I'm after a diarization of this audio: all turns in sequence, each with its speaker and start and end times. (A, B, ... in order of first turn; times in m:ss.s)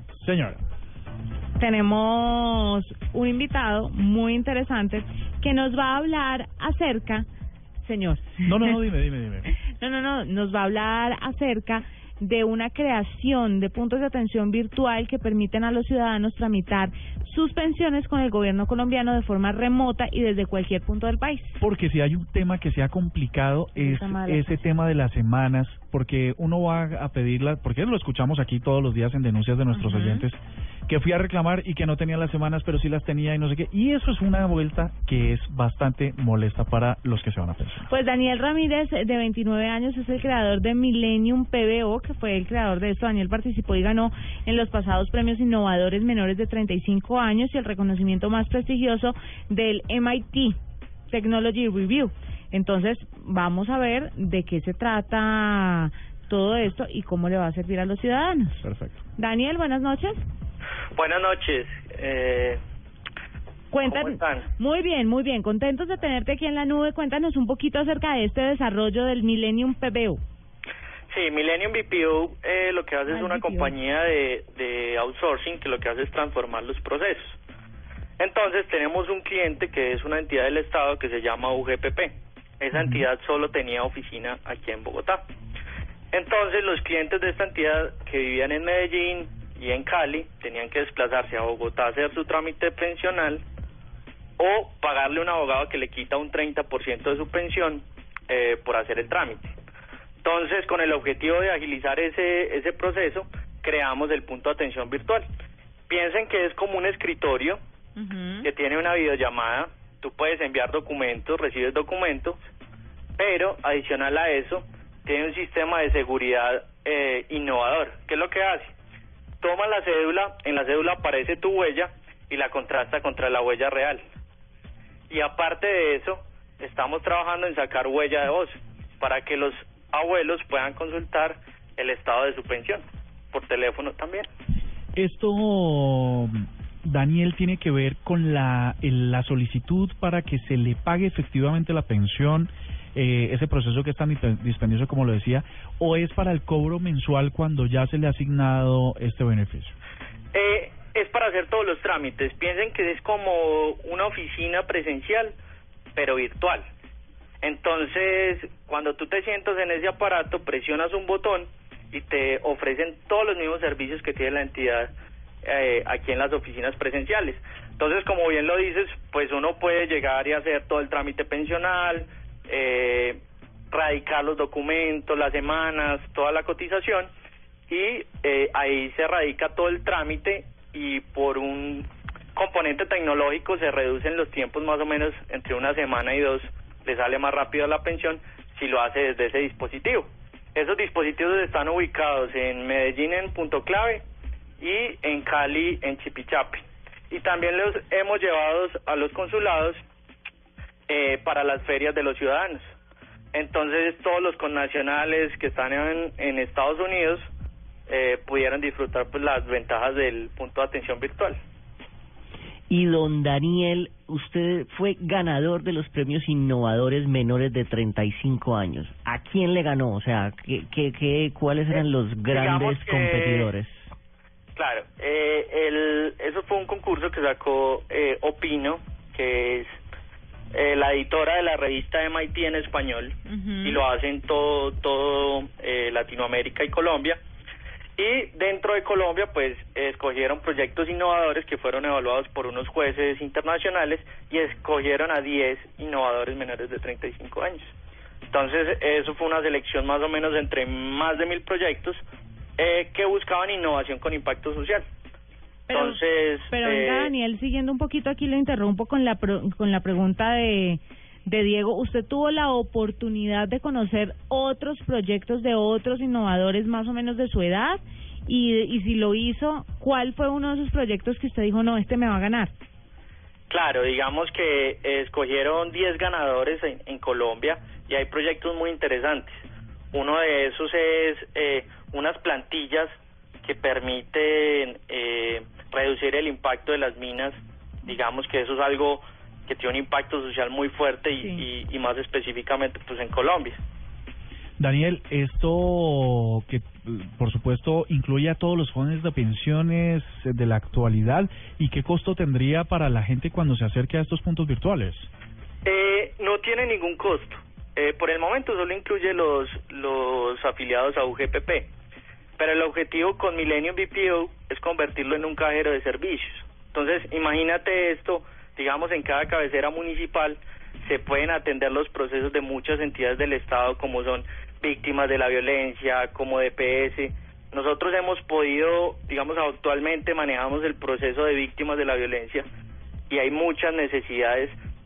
0:00.1-0:00.6 A
0:01.6-0:07.3 B
0:07.8-0:08.4 B
0:08.4-0:09.5 A
0:09.8-0:21.6 B
0:21.6-0:37.9 A
0:23.8-0:24.6 B
0:29.7-0:30.2 B
0:37.9-0:50.6 B
0:51.1-0:58.7 B
0:58.6-0:59.0 A
0:59.2-1:00.2 B
1:01.0-1:02.6 C
1:03.7-1:10.2 B
1:03.8-1:04.5 C
1:11.1-1:17.4 C
1:13.1-1:13.7 B
1:18.2-1:25.2 C
1:22.8-1:23.0 A
1:26.1-1:33.4 C
1:34.4-1:39.5 C
1:40.2-1:45.3 C
1:45.9-1:47.6 C
1:48.0-1:48.5 B
1:48.4-1:52.4 C
1:53.2-1:58.7 C
1:59.4-2:04.0 C
2:05.1-2:14.3 C
2:15.0-2:29.8 A
2:30.3-2:35.4 C
2:36.0-2:36.6 C
2:37.4-2:44.9 C
2:45.4-2:53.2 C
2:53.7-2:57.1 C
2:57.7-3:14.0 C
3:14.6-3:19.8 C
3:20.9-3:22.6 C
3:23.3-3:27.3 C
3:27.9-3:31.4 C
3:32.7-3:43.9 D
3:42.3-3:43.5 C
3:44.6-3:49.8 C
3:50.5-3:57.2 C
3:53.3-3:53.8 B
3:58.0-4:07.7 C
4:08.3-4:12.0 C
4:12.6-4:14.9 C
4:15.7-4:32.5 B
4:15.7-4:17.1 C
4:33.5-4:39.3 C
4:39.9-4:53.6 C
4:51.2-4:51.4 B
4:54.6-5:05.1 A
5:05.6-5:11.7 C
5:12.4-5:32.5 C
5:33.1-5:34.6 C